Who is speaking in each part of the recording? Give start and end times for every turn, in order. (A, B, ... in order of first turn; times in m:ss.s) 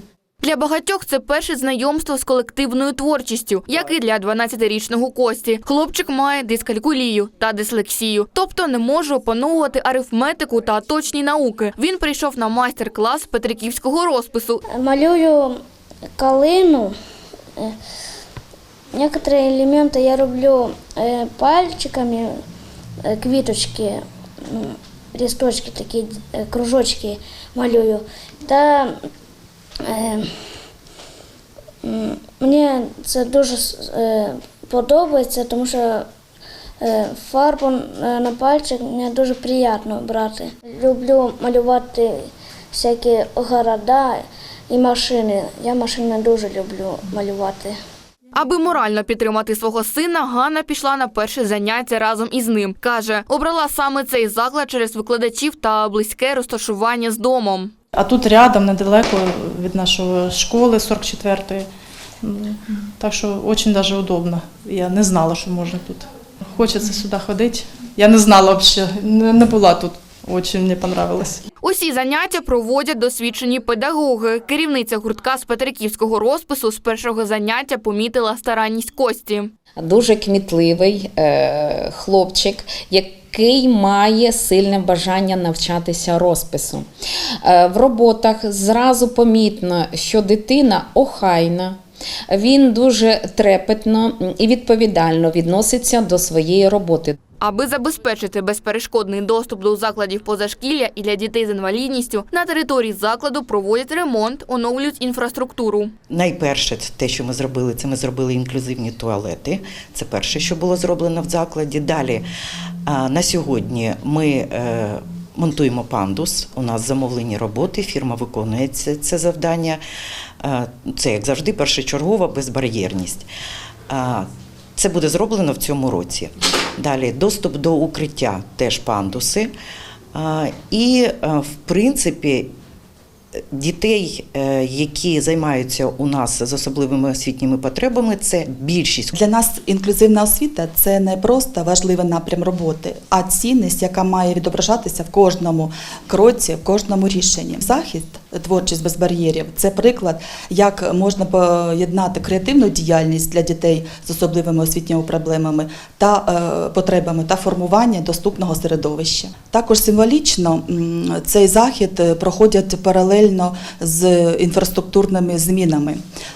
0:00.4-0:14.6 A
0:14.8-0:15.6 B
0:16.2-0:16.9 B
0:18.9-0:22.3 B
0:23.0-0:28.9 B
0:29.9-0:30.3 B
0:31.8-0:36.1 B
0:36.8-0:47.8 B
0:48.4-0:57.7 A
0:58.0-1:01.6 C
1:03.0-1:06.1 C
1:06.6-1:11.3 C
1:11.6-1:19.5 A
1:19.8-1:26.9 D
1:27.4-1:31.8 D
1:32.3-1:37.2 D
1:37.4-1:45.9 A
1:46.1-1:52.2 E
1:52.9-1:59.8 E
2:00.4-2:03.3 E
2:03.9-2:09.5 E
2:10.1-2:12.5 E
2:13.5-2:19.1 E
2:19.1-2:46.0 F